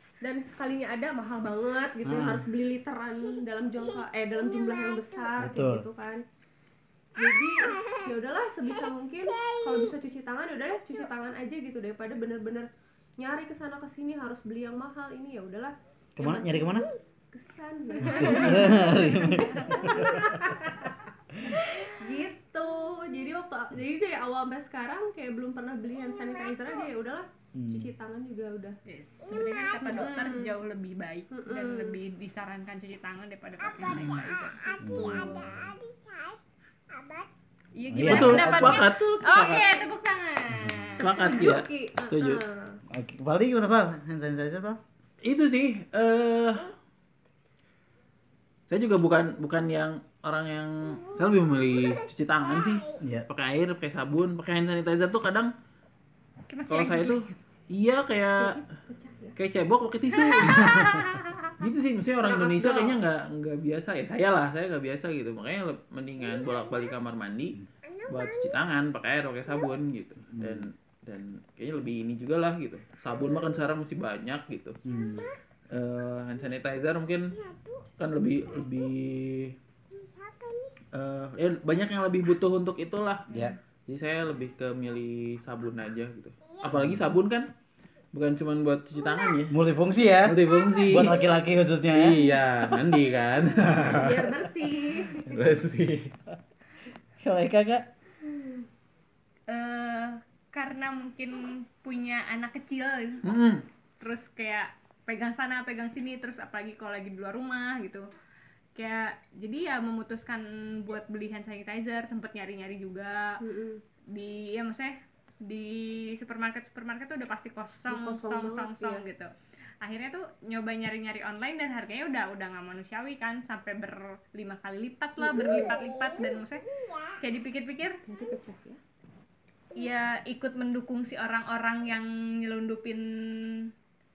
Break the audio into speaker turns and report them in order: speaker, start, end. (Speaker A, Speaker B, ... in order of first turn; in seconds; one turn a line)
Speaker A: 0.2-6.2
Speaker B: 2.0-2.4
Speaker B: 5.4-5.9
Speaker A: 7.2-20.9
Speaker B: 16.2-16.9
Speaker B: 18.0-20.6
Speaker A: 21.5-28.8
Speaker B: 27.6-27.9
Speaker C: 28.9-34.6
Speaker A: 29.8-30.6
Speaker A: 31.3-32.0
Speaker D: 33.9-34.2
Speaker B: 34.8-35.7
Speaker C: 37.8-41.5
Speaker B: 37.9-38.9
Speaker D: 38.0-39.7
Speaker A: 38.1-39.8
Speaker B: 40.6-41.0
Speaker D: 41.0-42.4
Speaker A: 41.2-42.8
Speaker B: 42.9-44.8
Speaker D: 45.2-46.7
Speaker D: 48.7-55.5
Speaker B: 53.0-53.3
Speaker C: 56.5-57.4
Speaker D: 56.7-58.6
Speaker A: 58.4-59.4
Speaker D: 59.4-61.0
Speaker C: 60.1-61.5
Speaker D: 61.6-74.8
Speaker A: 62.2-63.0
Speaker B: 70.3-70.7
Speaker B: 74.8-75.3
Speaker D: 75.7-77.4
Speaker D: 78.0-79.5
Speaker D: 80.9-83.3
Speaker B: 83.3-83.5
Speaker D: 83.9-87.5
Speaker B: 86.7-87.0
Speaker D: 88.1-89.6
Speaker B: 89.5-92.2
Speaker D: 90.2-91.2
Speaker D: 91.9-94.3
Speaker A: 93.9-95.2
Speaker D: 95.1-96.1
Speaker B: 97.2-97.9
Speaker C: 99.5-103.2
Speaker D: 103.2-103.7
Speaker C: 104.0-108.1
Speaker C: 108.8-113.4
Speaker A: 113.4-113.8
Speaker C: 114.1-126.7
Speaker A: 117.9-119.0
Speaker A: 125.2-125.6
Speaker C: 127.2-128.0
Speaker A: 128.1-128.8
Speaker C: 129.8-133.7